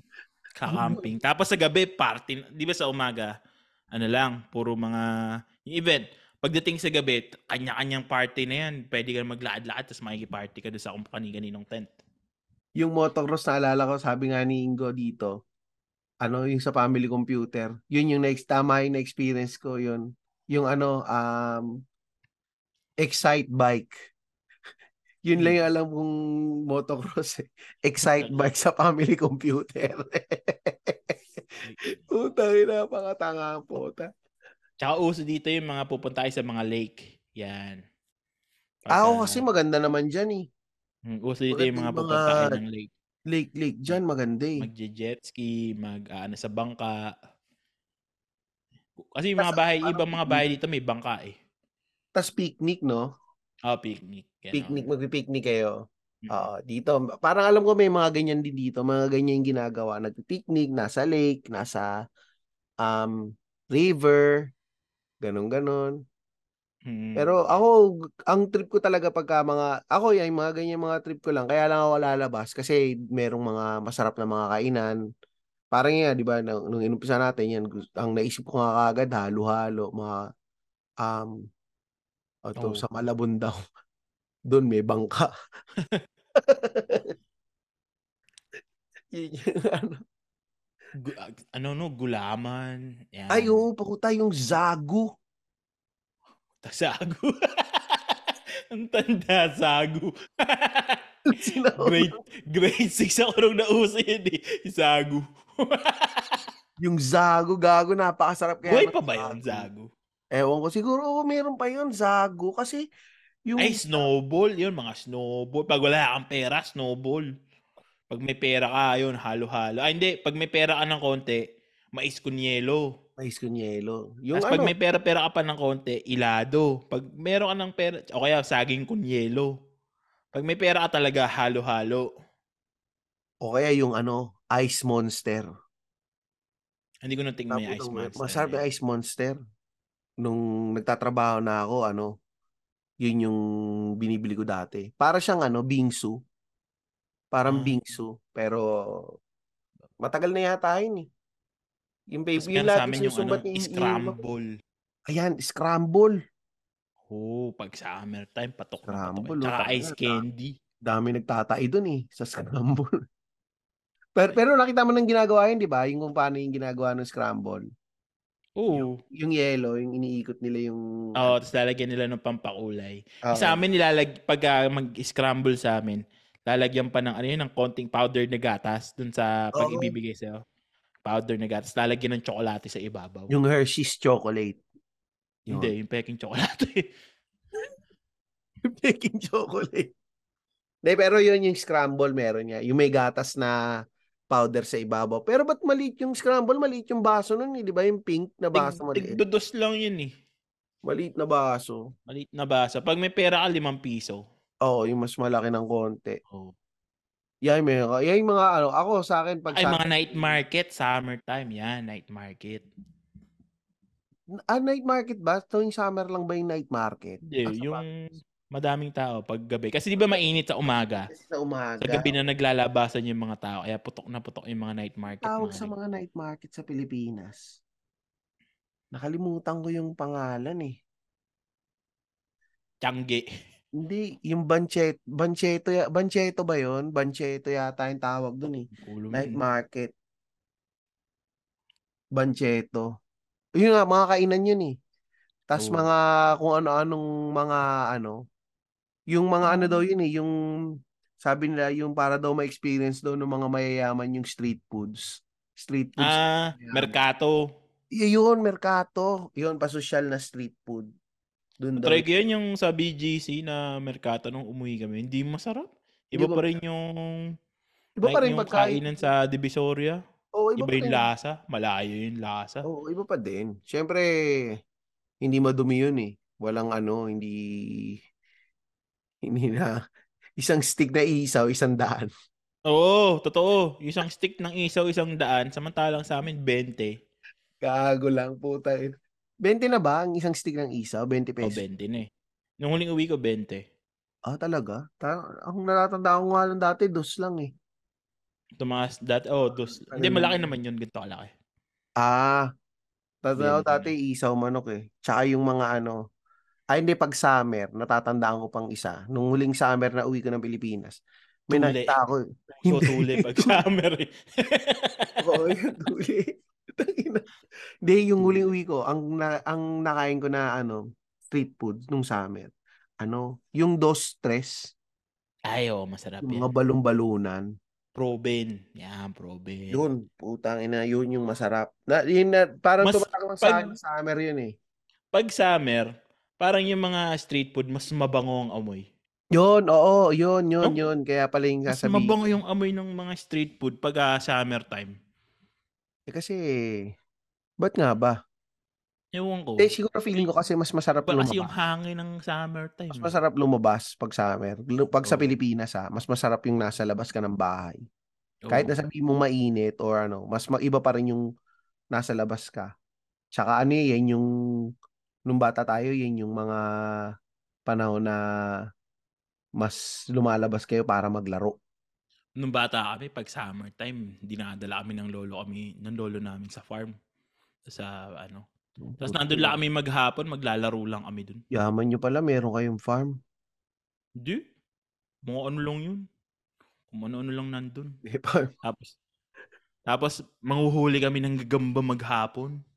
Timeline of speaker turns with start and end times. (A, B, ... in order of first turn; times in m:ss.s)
0:00.6-0:03.3 A
0:00.7-0:01.0 B
0:03.9-0:05.0 A
0:05.6-0:12.0 A
0:12.8-0:15.3 B
0:16.2-0:21.7 B
0:23.0-0:23.9 B
0:25.2-0:26.1 B
0:26.7-0:34.1 B
0:28.0-0:28.5 A
0:31.6-0:32.0 A
0:34.8-0:37.8 A
0:38.8-0:39.4 A
0:38.9-0:40.4 B
0:41.1-0:42.9 A
0:41.5-0:42.6 B
0:43.3-0:44.6 B
0:44.6-0:47.1 A
0:49.0-0:51.3 A
0:49.4-0:50.4 B
0:52.2-0:53.0 B
0:53.7-0:54.9 A
0:54.5-0:55.7 B
0:56.2-0:56.5 A
0:56.3-1:01.9 B
1:02.8-1:03.2 B
1:03.7-1:04.4 B
1:05.2-1:05.9 B
1:06.9-1:07.6 A
1:07.2-1:07.7 B
1:08.3-1:15.0 B
1:15.7-1:20.2 B
1:21.0-1:21.3 B
1:22.5-1:23.6 B
1:22.6-1:22.8 A
1:24.5-1:25.3 B
1:26.4-1:27.1 B
1:29.1-1:30.0 B
1:31.0-1:33.6 A
1:33.3-1:35.1 B
1:36.6-1:41.0 A
1:41.3-1:42.1 B
1:41.7-1:46.4 A
1:46.8-1:49.7 B
1:48.6-1:49.9 A
1:50.3-1:52.8 B
1:53.5-1:54.0 B
1:53.6-1:57.2 A
1:58.1-2:01.4 A
2:01.9-2:02.9 A
2:03.2-2:04.7 B
2:04.3-2:09.5 A
2:10.3-2:12.1 A
2:13.4-2:15.5 B
2:17.0-2:18.6 A
2:17.5-2:19.4 B
2:20.2-2:22.1 B
2:23.0-2:23.4 B
2:24.0-2:26.2 B
2:27.3-2:28.6 B
2:27.5-2:27.8 A
2:30.0-2:31.0 B
2:32.1-2:34.2 B
2:32.4-2:34.4 A
2:35.1-2:36.1 B
2:37.1-2:40.5 A
2:38.9-2:40.2 B
2:40.8-2:42.9 B
2:44.2-2:47.6 B
2:48.6-2:49.0 A
2:48.7-2:51.3 B
2:51.2-3:00.4 A
2:53.2-2:53.6 B
2:59.6-2:59.9 B
3:01.0-3:03.3 A
3:03.3-3:04.6 B
3:05.5-3:06.8 A
3:08.6-3:09.9 B
3:10.8-3:13.6 B
3:14.3-3:19.2 B
3:18.5-3:20.1 A
3:20.8-3:21.8 B
3:22.1-3:24.2 A
3:24.6-3:26.2 B
3:27.4-3:30.4 B
3:29.5-3:32.6 A
3:34.5-3:37.8 B
3:37.2-3:41.1 A
3:41.1-3:42.1 B
3:41.8-3:45.7 A
3:45.2-3:47.4 B
3:48.9-3:50.7 B
3:52.8-3:53.2 A
3:53.8-3:59.9 B
3:58.7-3:59.4 A
4:02.2-4:02.8 B
4:03.6-4:04.7 B
4:05.5-4:08.2 B
4:05.6-4:05.9 A
4:09.1-4:10.3 B
4:09.4-4:09.8 A
4:11.2-4:16.9 B
4:16.0-4:17.5 A
4:17.9-4:20.9 B
4:21.6-4:22.0 B
4:21.8-4:27.2 A
4:26.2-4:26.4 B
4:28.0-4:28.8 B
4:28.0-4:30.0 A
4:30.4-4:31.0 B
4:30.6-4:32.7 A
4:32.6-4:34.0 B
4:35.2-4:38.0 B
4:39.2-4:39.7 B
4:40.4-4:42.1 B
4:42.7-4:46.9 A
4:47.6-4:51.6 B
4:51.4-4:52.1 A
4:52.6-4:53.6 A
4:54.3-4:57.5 B
4:58.6-5:01.3 A
4:59.6-5:00.4 B
5:02.0-5:02.4 B
5:03.2-5:06.0 B
5:03.4-5:03.9 A
5:06.7-5:13.6 B
5:11.5-5:12.0 A
5:12.5-5:15.5 A
5:15.2-5:17.2 B
5:17.8-5:22.5 B
5:18.2-5:18.4 A
5:23.0-5:24.7 B
5:25.5-5:26.5 A
5:26.2-5:27.4 B
5:28.0-5:29.8 A
5:29.7-5:34.5 B
5:32.8-5:33.7 A
5:35.1-5:35.9 A
5:36.4-5:38.8 A
5:39.3-5:42.1 B
5:41.7-5:44.9 A
5:46.1-5:46.4 B
5:47.6-5:48.2 B
5:49.1-5:49.7 A
5:49.6-5:51.5 B
5:51.1-5:53.2 A
5:52.9-5:57.8 B
5:58.4-5:58.7 A
5:58.5-6:01.2 B
6:01.9-6:02.7 B
6:03.3-6:04.2 B
6:05.3-6:06.6 B
6:07.7-6:08.2 B
6:09.6-6:11.5 B
6:12.4-6:16.9 A
6:17.7-6:18.4 A
6:18.8-6:19.6 B
6:19.0-6:21.4 A
6:21.5-6:23.1 B
6:25.3-6:26.0 A
6:26.9-6:27.9 A
6:28.1-6:28.5 B
6:28.6-6:28.9 A
6:29.9-6:32.6 A